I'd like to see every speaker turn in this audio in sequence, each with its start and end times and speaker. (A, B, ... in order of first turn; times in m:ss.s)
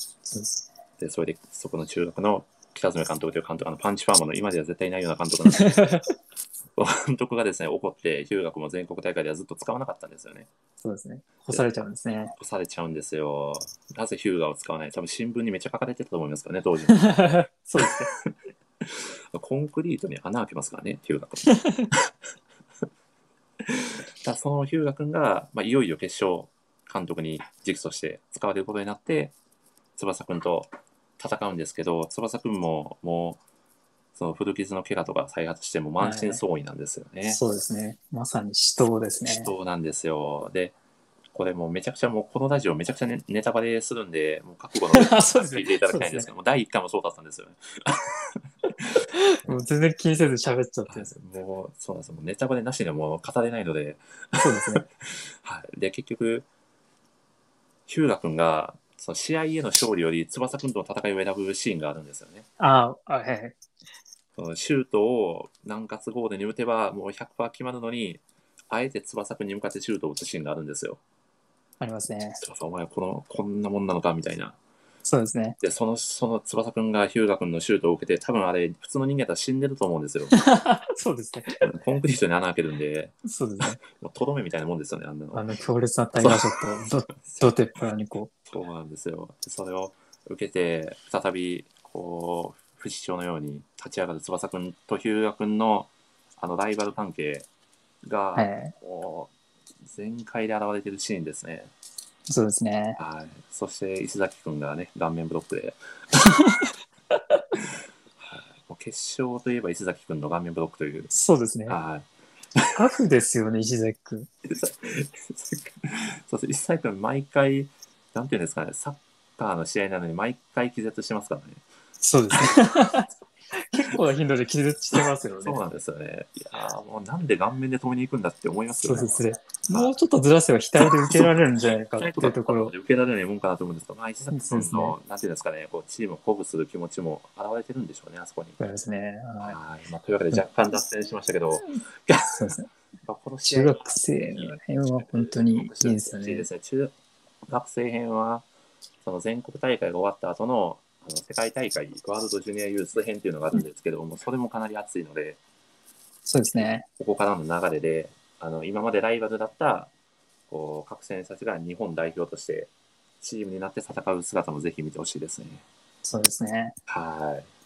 0:00.2-0:00.6 A
0:01.0-0:05.9 B
0:05.5-0:06.1 A
0:06.8-0:10.5 B
0:10.8-0:12.4 A
0:12.4-0:17.2 B
0:16.9-0:18.1 A
0:17.8-0:22.1 B
0:21.5-0:21.9 A
0:23.6-0:29.4 B
0:30.0-0:33.4 B
0:34.2-0:37.4 B
0:36.0-0:36.4 A
0:37.3-0:39.5 A
0:39.2-0:40.8 B
0:41.3-0:48.4 B
0:44.9-0:46.3 A
0:49.1-0:51.1 A
0:50.9-0:56.5 B
0:54.4-0:54.8 A
0:57.9-1:02.5 B
1:02.6-1:03.6 A
1:04.4-1:11.0 B
1:11.8-1:12.4 A
1:12.4-1:14.6 B
1:15.0-1:15.6 A
1:15.6-1:20.4 B
1:20.3-1:21.6 A
1:21.6-1:25.5 B
1:23.2-1:23.8 A
1:25.3-1:28.3 A
1:26.2-1:26.5 B
1:27.2-1:27.6 B
1:28.5-1:37.5 B
1:38.0-1:39.3 B
1:38.4-1:38.7 A
1:39.8-1:41.7 B
1:42.3-1:43.0 A
1:43.0-1:45.8 B
1:46.2-1:46.7 A
1:48.2-1:51.1 B
1:51.1-1:51.8 A
1:51.7-1:52.8 B
1:52.7-1:54.3 A
1:54.5-2:01.6 B
2:02.0-2:05.6 A
2:05.4-2:09.9 B
2:08.8-2:12.7 A
2:10.8-2:11.4 B
2:11.9-2:18.6 B
2:14.3-2:15.0 A
2:18.6-2:19.6 A
2:19.4-2:26.9 B
2:22.4-2:22.7 A
2:23.5-2:26.5 A
2:27.5-2:28.5 B
2:29.0-2:35.4 B
2:36.3-2:36.9 A
2:36.9-2:39.9 B
2:40.5-2:42.7 B
2:43.2-2:45.6 B
2:46.0-2:46.8 A
2:46.9-2:47.5 B